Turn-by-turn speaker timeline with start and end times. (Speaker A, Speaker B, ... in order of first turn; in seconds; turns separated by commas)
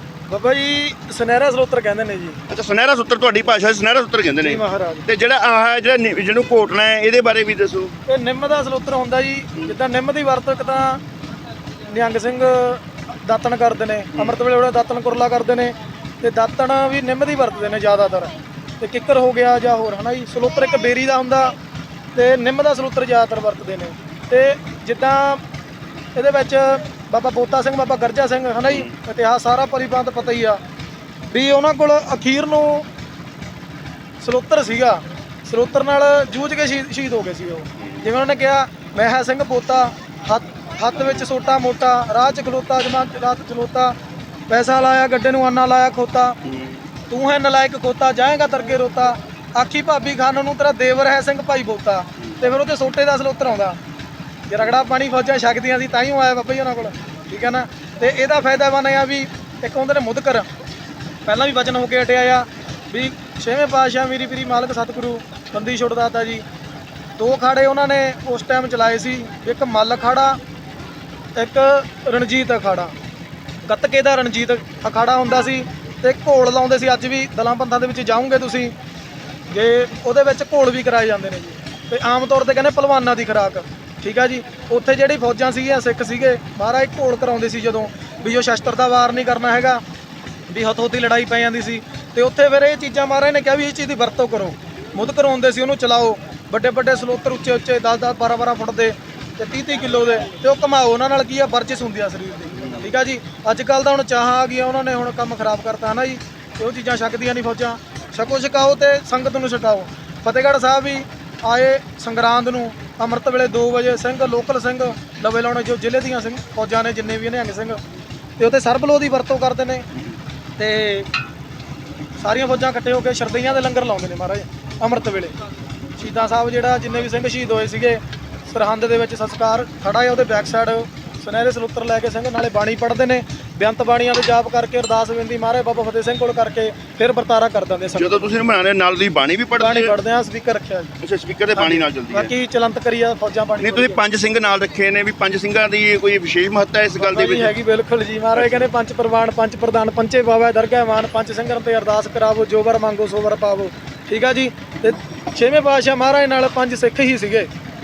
Speaker A: 0.3-2.4, Speaker B: 2.5-8.0, Speaker A: 4.4-5.1, Speaker A: 8.1-11.0, Speaker A: 11.9-21.6, Speaker A: 22.1-25.4, Speaker A: 26.1-30.6, Speaker B: 28.7-28.9, Speaker A: 31.3-32.9, Speaker A: 34.2-44.0, Speaker B: 37.8-38.1, Speaker A: 44.5-46.4, Speaker B: 46.5-46.9, Speaker A: 47.1-53.8, Speaker A: 54.5-60.5, Speaker A: 61.2-66.4, Speaker A: 67.2-70.4, Speaker A: 71.4-72.9, Speaker A: 73.7-78.7, Speaker A: 79.5-89.8, Speaker A: 90.5-117.8, Speaker A: 118.4-119.9, Speaker A: 120.6-121.1, Speaker A: 122.2-125.4, Speaker A: 126.0-138.4, Speaker B: 138.0-139.9, Speaker A: 139.6-140.9, Speaker B: 141.0-142.3, Speaker A: 141.5-144.0, Speaker B: 143.6-147.6, Speaker A: 147.0-157.5, Speaker B: 148.3-148.7